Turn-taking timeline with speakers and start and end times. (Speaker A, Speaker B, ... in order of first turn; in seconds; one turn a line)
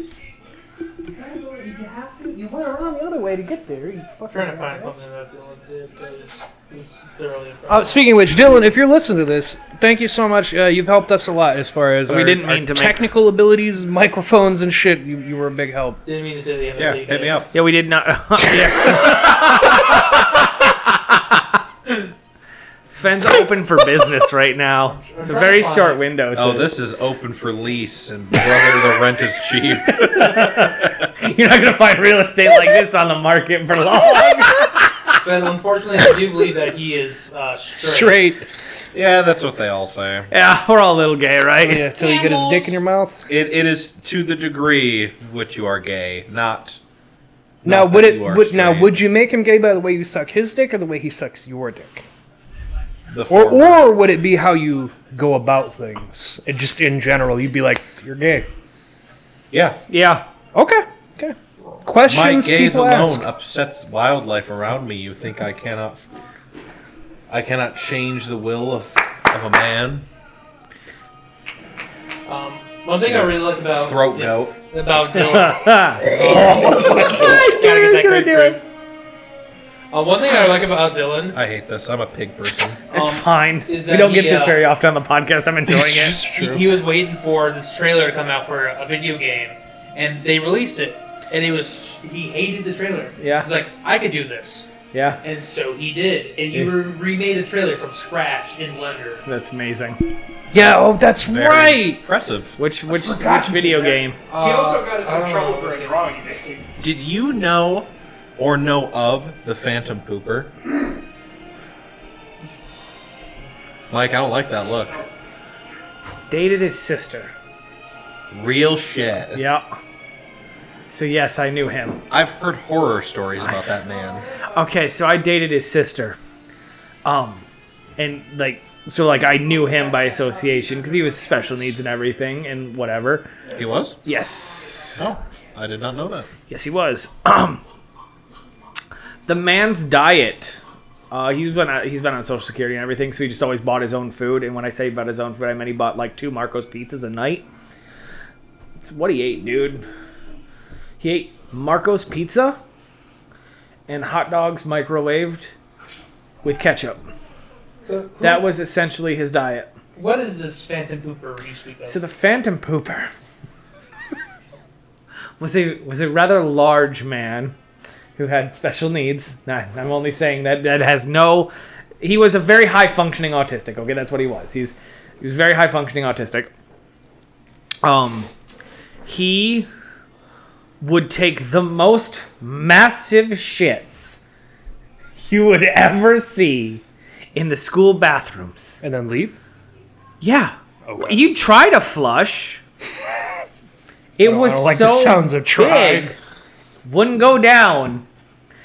Speaker A: 1.1-5.0
Speaker B: 4.3-8.0
Speaker A: 7.7-16.0
Speaker C: 12.1-13.1
Speaker B: 16.1-17.4
Speaker D: 16.8-17.5
Speaker C: 17.5-21.6
Speaker C: 22.9-26.7
Speaker B: 25.0-26.0
Speaker D: 26.3-31.1
Speaker C: 29.9-35.2
Speaker B: 35.2-38.3
Speaker A: 37.8-38.4
Speaker D: 38.9-40.3
Speaker C: 40.3-41.9
Speaker A: 41.6-43.3
Speaker B: 42.0-42.8
Speaker D: 43.3-46.8
Speaker D: 47.6-49.0
Speaker A: 47.6-52.0
Speaker D: 53.1-54.0
Speaker A: 53.3-58.5
Speaker D: 59.5-59.9
Speaker C: 59.9-60.3
Speaker A: 60.5-63.3
Speaker D: 62.0-66.0
Speaker D: 67.3-70.1
Speaker B: 72.3-78.6
Speaker D: 73.0-74.6
Speaker C: 75.1-78.6
Speaker B: 79.9-81.4
Speaker D: 81.3-82.8
Speaker B: 82.9-84.6
Speaker C: 82.9-86.2
Speaker A: 85.7-86.7
Speaker B: 86.3-94.7
Speaker C: 93.2-93.5
Speaker C: 94.9-95.2
Speaker B: 95.2-99.2
Speaker C: 99.3-100.0
Speaker A: 100.5-102.0
Speaker D: 100.5-102.6
Speaker C: 102.6-104.2
Speaker A: 102.9-106.7
Speaker B: 104.3-105.9
Speaker D: 106.8-110.5
Speaker D: 113.9-115.1
Speaker C: 116.3-117.3
Speaker D: 118.3-119.5
Speaker C: 119.3-119.7
Speaker C: 120.9-122.0
Speaker D: 122.1-124.2
Speaker C: 124.5-126.2
Speaker C: 127.0-127.5
Speaker C: 128.0-133.4
Speaker D: 133.6-134.0
Speaker C: 134.0-135.1
Speaker D: 135.0-136.3
Speaker C: 136.5-137.6
Speaker C: 139.3-147.5
Speaker C: 148.8-149.9
Speaker C: 151.0-152.6
Speaker C: 153.9-155.5
Speaker C: 156.4-157.1
Speaker B: 157.8-158.5
Speaker C: 158.2-159.7
Speaker B: 160.0-162.0
Speaker C: 161.9-163.1
Speaker C: 165.4-167.6
Speaker C: 168.2-176.5
Speaker C: 177.8-178.3
Speaker C: 179.1-179.7
Speaker C: 180.8-184.2
Speaker C: 185.2-186.8
Speaker C: 187.3-188.8
Speaker A: 188.8-189.4
Speaker C: 190.2-192.6
Speaker A: 190.9-191.2
Speaker C: 194.2-196.2
Speaker A: 194.2-196.1
Speaker C: 196.8-198.1